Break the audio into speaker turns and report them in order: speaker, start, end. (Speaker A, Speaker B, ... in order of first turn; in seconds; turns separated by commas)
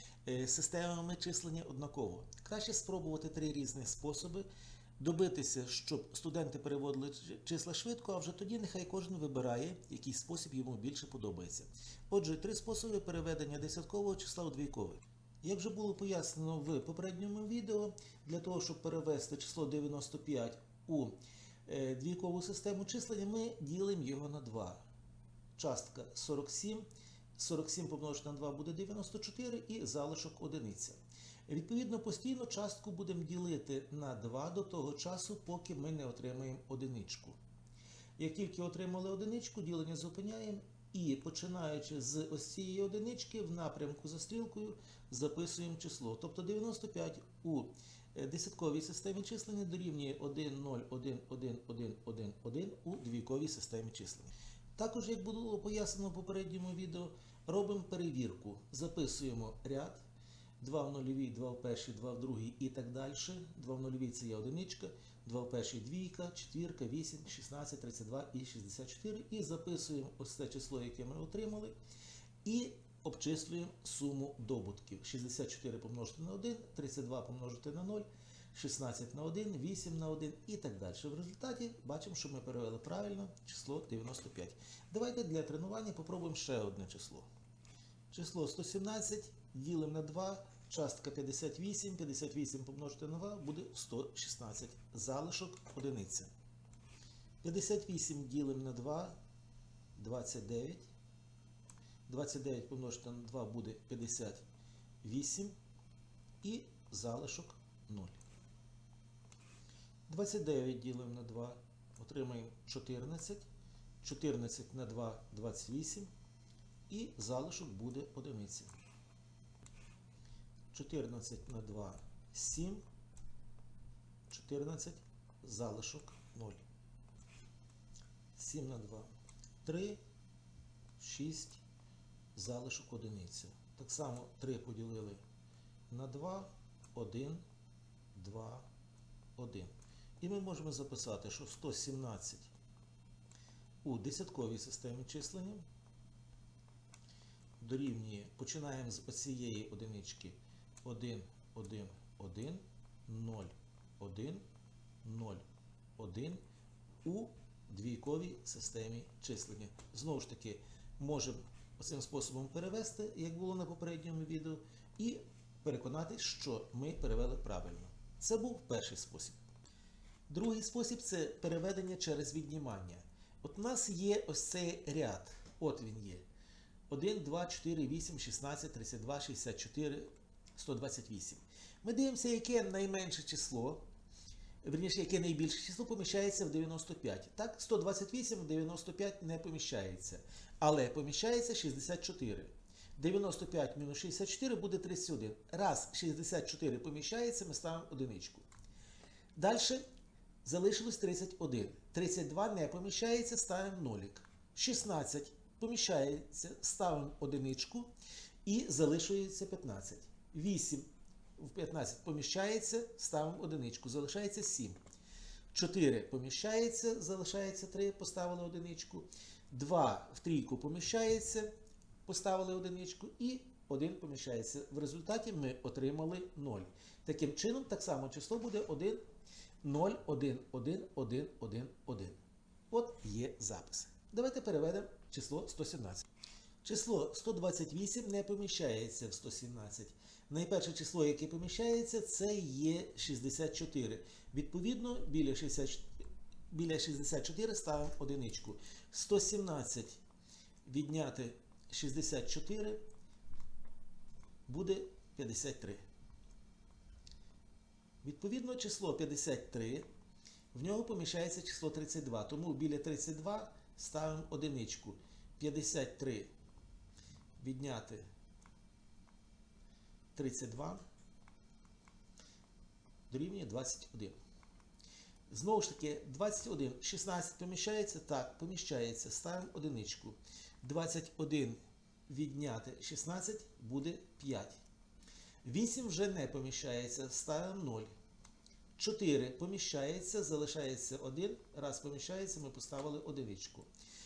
Speaker A: 0.2-4.5, Speaker A: 5.0-21.1, Speaker A: 21.6-24.8, Speaker A: 25.6-37.4, Speaker A: 38.2-60.0, Speaker A: 60.6-71.8, Speaker A: 72.4-87.3, Speaker A: 88.1-96.3, Speaker A: 97.4-99.2, Speaker A: 100.0-100.9, Speaker A: 102.1-104.4, Speaker A: 105.0-105.5, Speaker A: 106.4-108.2, Speaker A: 110.1-113.5, Speaker A: 114.0-116.1, Speaker A: 116.9-118.8, Speaker A: 120.7-122.8, Speaker A: 124.3-126.6, Speaker A: 128.3-130.0, Speaker A: 131.0-131.6, Speaker A: 132.3-135.2, Speaker A: 135.9-137.4, Speaker A: 138.1-138.7, Speaker A: 139.3-142.5, Speaker A: 143.8-145.6, Speaker A: 147.6-154.4, Speaker A: 155.0-155.4, Speaker A: 156.0-156.4, Speaker A: 157.0-169.4, Speaker A: 170.3-176.2, Speaker A: 176.9-183.8, Speaker A: 184.6-198.4, Speaker A: 199.3-199.8, Speaker A: 200.4-207.9, Speaker A: 208.4-214.8, Speaker A: 215.5-221.5, Speaker A: 222.1-229.0, Speaker A: 229.6-232.2, Speaker A: 232.7-236.0, Speaker A: 236.6-245.9, Speaker A: 246.5-250.0, Speaker A: 250.7-252.8, Speaker A: 254.5-255.8, Speaker A: 258.0-259.9, Speaker A: 260.5-266.3, Speaker A: 267.4-268.1, Speaker A: 270.1-270.8, Speaker A: 273.1-274.1, Speaker A: 275.3-284.6, Speaker A: 285.4-287.9, Speaker A: 288.8-293.7